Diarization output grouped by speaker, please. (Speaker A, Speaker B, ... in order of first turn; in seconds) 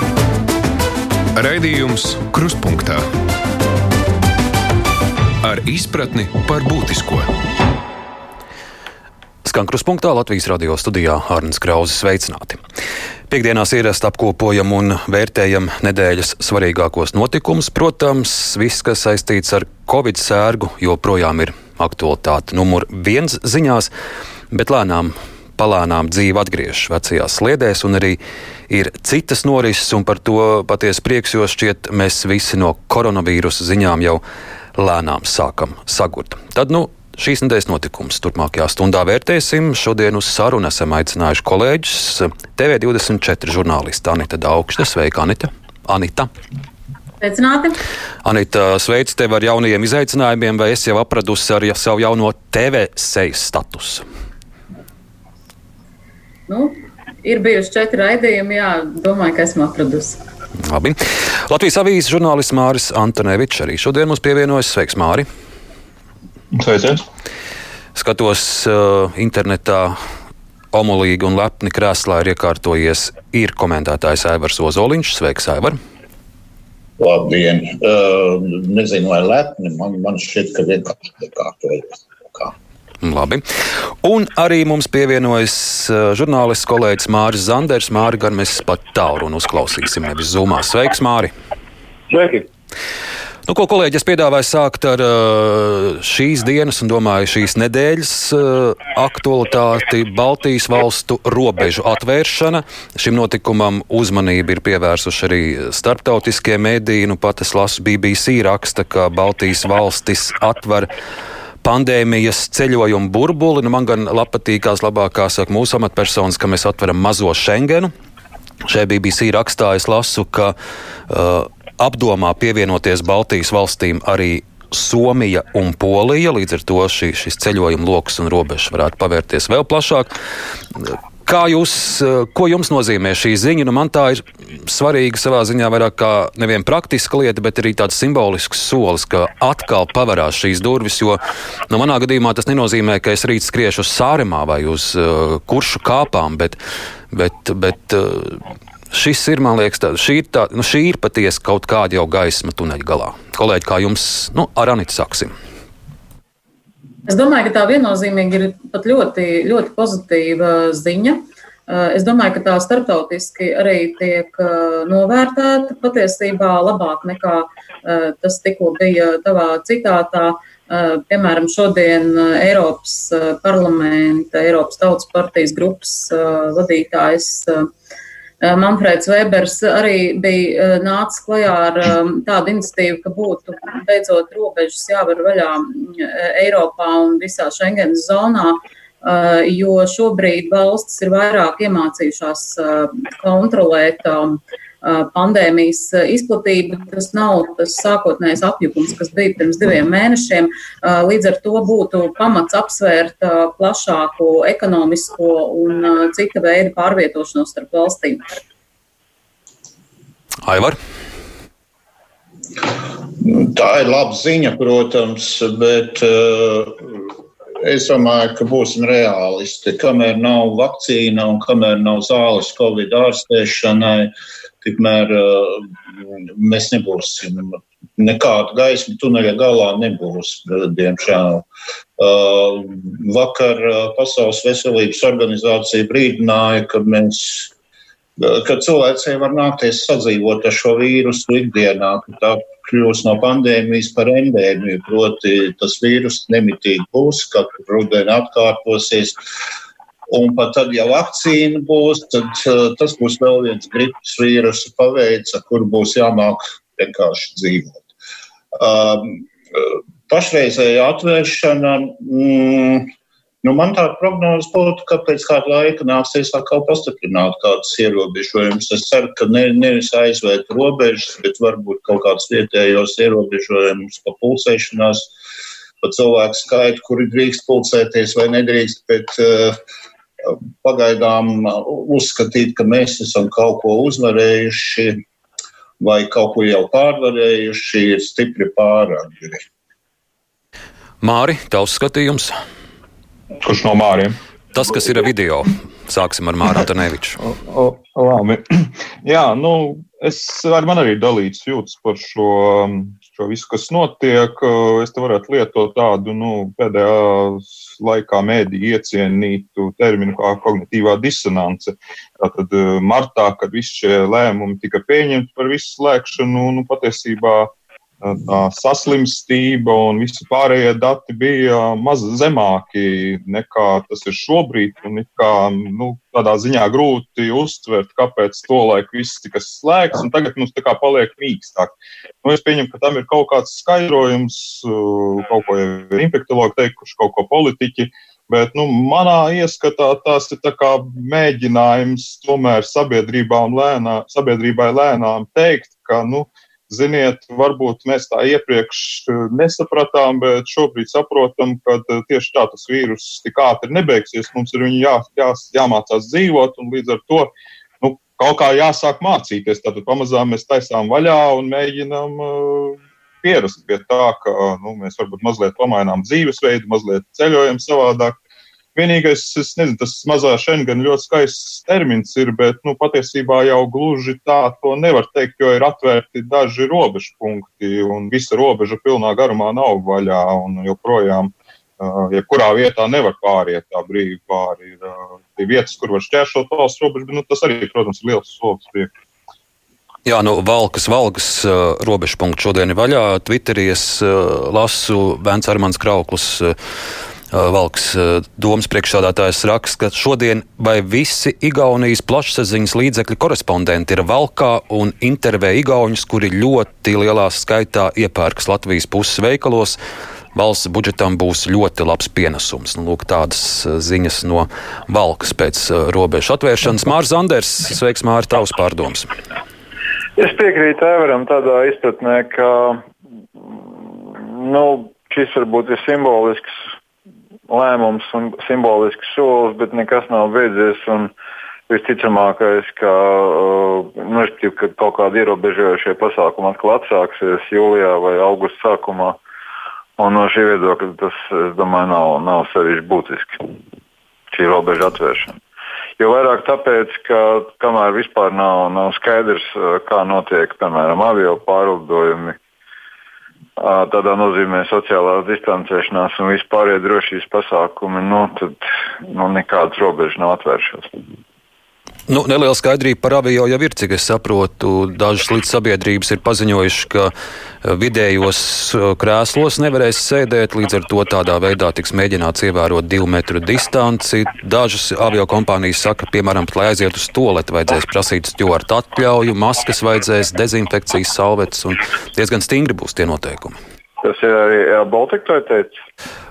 Speaker A: 1.3-3.1, 5.4-7.3
Speaker B: 9.4-12.6, 13.3-23.9, 24.5-34.2, 34.8-46.3, 48.2-54.0, 60.6-65.3, 67.9-70.0, 70.7-75.8, 83.0-83.4, 84.0-91.3, 93.5-110.9, 111.6-117.9, 118.7-120.5, 121.1-130.1, 130.8-146.6, 147.1-148.4, 148.9-155.3, 210.4-210.8, 291.0-292.3, 294.5-297.2, 390.0-396.5, 397.3-409.8, 410.3-419.1, 462.1-467.1, 467.6-483.6
Speaker C: 47.2-47.8, 56.5-60.2, 157.1-177.7, 178.4-208.4
Speaker D: 66.5-67.0, 293.4-294.2, 297.2-317.5, 318.0-368.1, 368.7-388.9
Speaker E: 77.0-82.5, 213.2-224.1, 224.6-231.4, 232.0-237.5, 238.2-249.2, 250.1-257.9, 258.5-262.9, 263.4-275.1, 275.8-279.6, 280.2-285.0, 285.8-289.4
Speaker F: 92.1-92.5, 420.2-422.8, 423.4-426.5, 427.5-431.1, 431.7-439.2, 440.0-443.4, 444.3-445.4, 446.0-452.4, 453.6-460.9, 484.0-485.7